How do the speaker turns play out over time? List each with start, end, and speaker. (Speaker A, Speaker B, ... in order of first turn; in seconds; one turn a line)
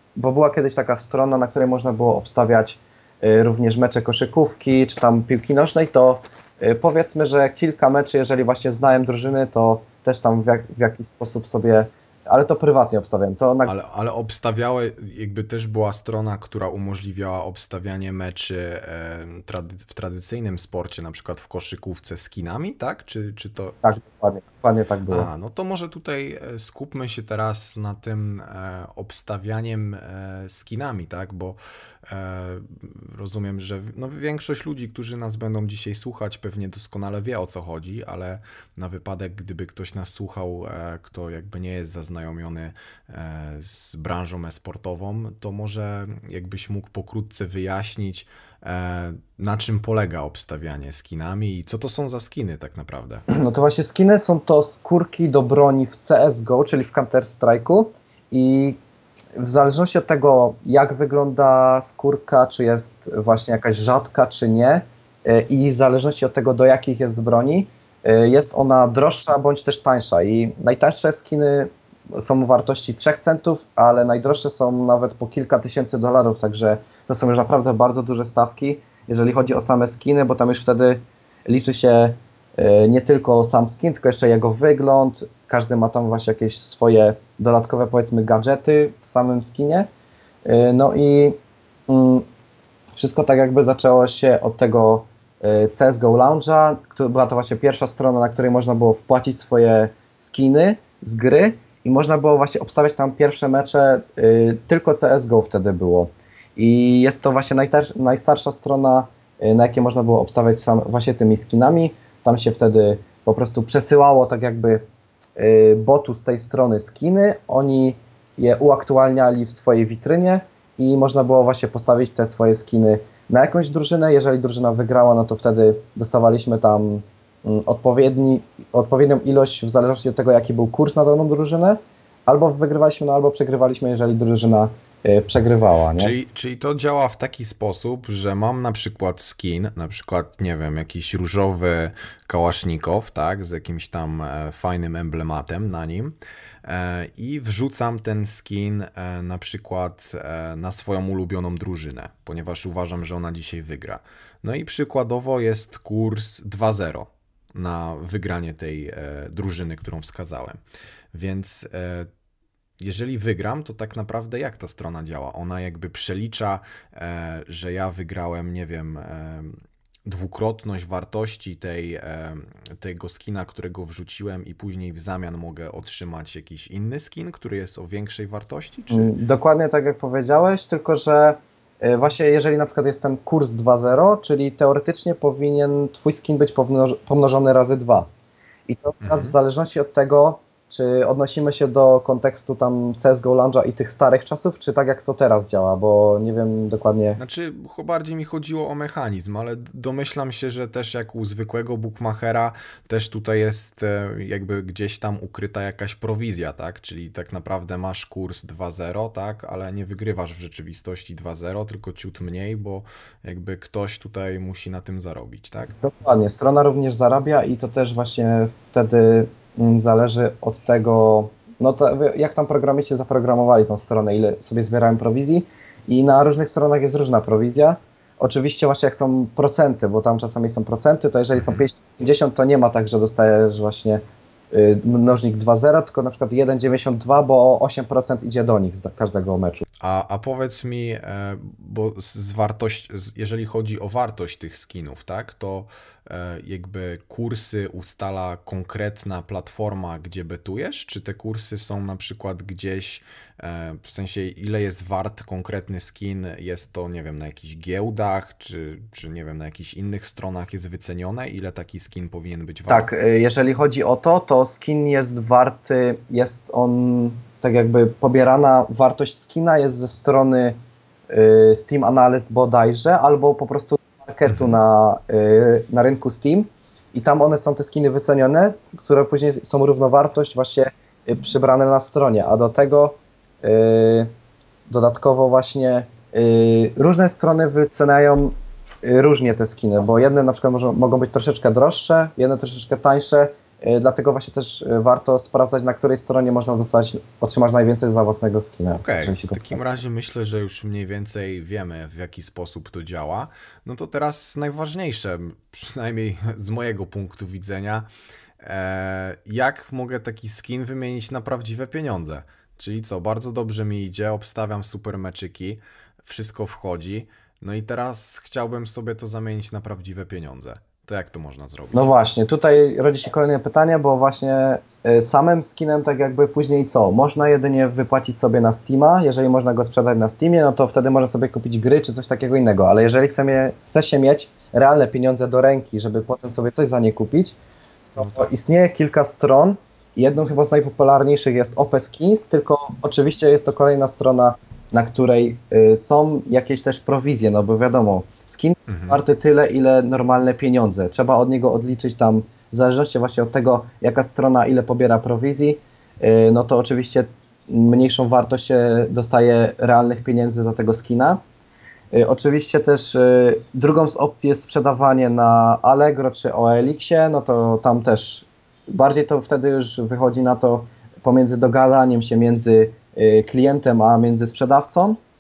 Speaker A: 0.2-13.7
Speaker B: 13.6-23.8
Speaker A: 23.8-25.3
Speaker B: 25.1-53.2
Speaker A: 53.3-58.8
Speaker A: 59.4-89.9
Speaker A: 90.5-91.3
Speaker A: 91.9-92.2
Speaker A: 92.9-114.8
Speaker A: 115.4-136.1
Speaker B: 135.9-160.6
Speaker B: 161.1-162.1
Speaker B: 162.8-179.1
Speaker A: 178.9-188.1
Speaker A: 188.7-197.2
Speaker B: 189.0-189.3
Speaker B: 197.2-215.7
Speaker A: 215.8-234.0
Speaker B: 231.4-231.6
Speaker A: 234.5-239.6
Speaker B: 239.8-262.9
Speaker A: 262.7-270.6
Speaker A: 271.1-284.1
Speaker B: 274.3-274.5
Speaker A: 284.7-299.6
Speaker B: 298.7-307.9
Speaker B: 308.4-321.9
Speaker A: 321.7-337.4
Speaker A: 337.9-361.2
Speaker B: 348.7-349.0
Speaker A: 361.9-375.0